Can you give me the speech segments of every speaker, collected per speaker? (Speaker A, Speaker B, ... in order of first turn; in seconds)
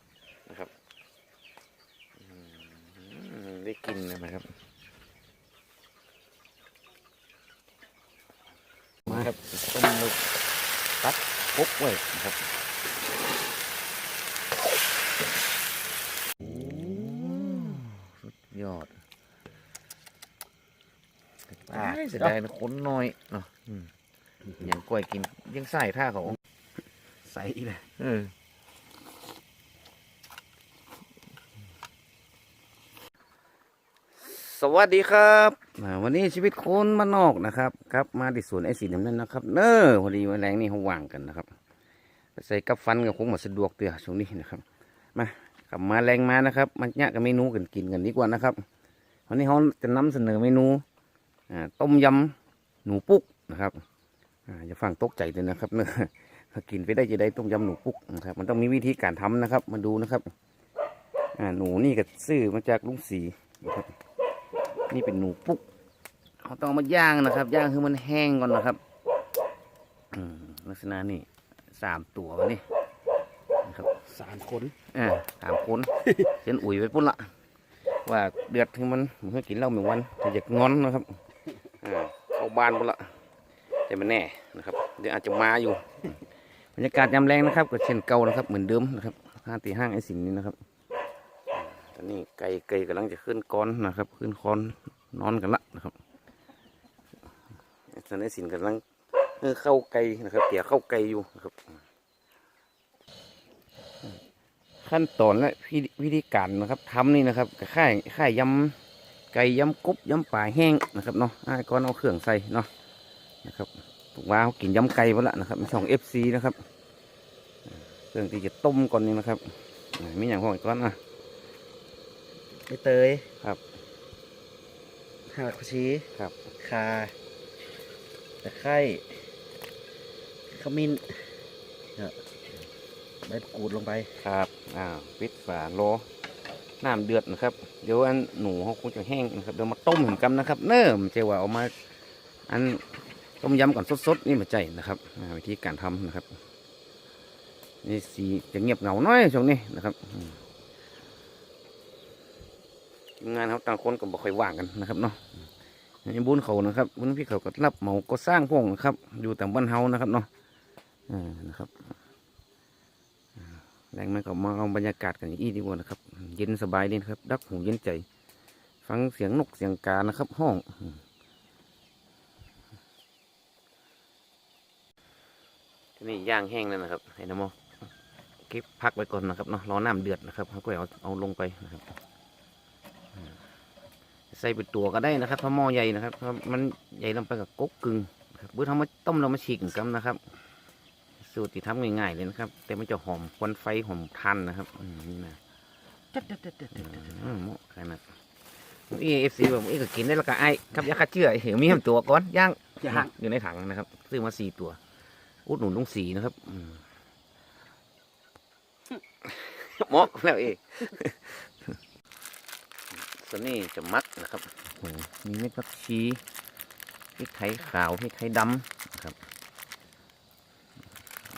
Speaker A: 2.2-4.5, 9.1-10.3, 11.0-12.4, 16.4-18.9, 21.7-23.9, 24.6-26.4, 28.0-28.3, 34.2-41.5, 42.4-44.6, 45.1-48.6, 49.3-50.8, 51.5-53.8, 54.5-60.3, 61.4-63.9, 64.9-65.6, 66.4-68.8, 70.1-72.6, 73.6-73.9, 74.9-77.3, 78.0-81.2, 81.8-83.1, 83.9-86.2, 86.8-90.6, 91.5-96.0, 97.9-98.8, 99.4-101.8, 104.8-108.8, 109.3-112.7, 113.4-116.6, 118.1-121.0, 134.2-136.1, 136.8-141.7, 142.5-146.3, 147.8-150.4, 153.2-155.2, 156.0-160.3, 161.1-161.7, 163.9-168.1, 168.8-171.0, 176.0-177.5, 178.5-181.8, 184.3-190.2, 191.2-195.4, 196.8-198.0, 198.9-204.8, 205.5-206.8, 209.2-211.5, 212.9-216.2, 217.2-219.2
Speaker B: 21.7-22.4, 27.2-27.8, 74.0-74.8, 122.6-123.3, 125.2-127.1, 128.4-129.2, 130.5-132.2, 133.2-134.1, 196.1-197.1, 202.8-203.1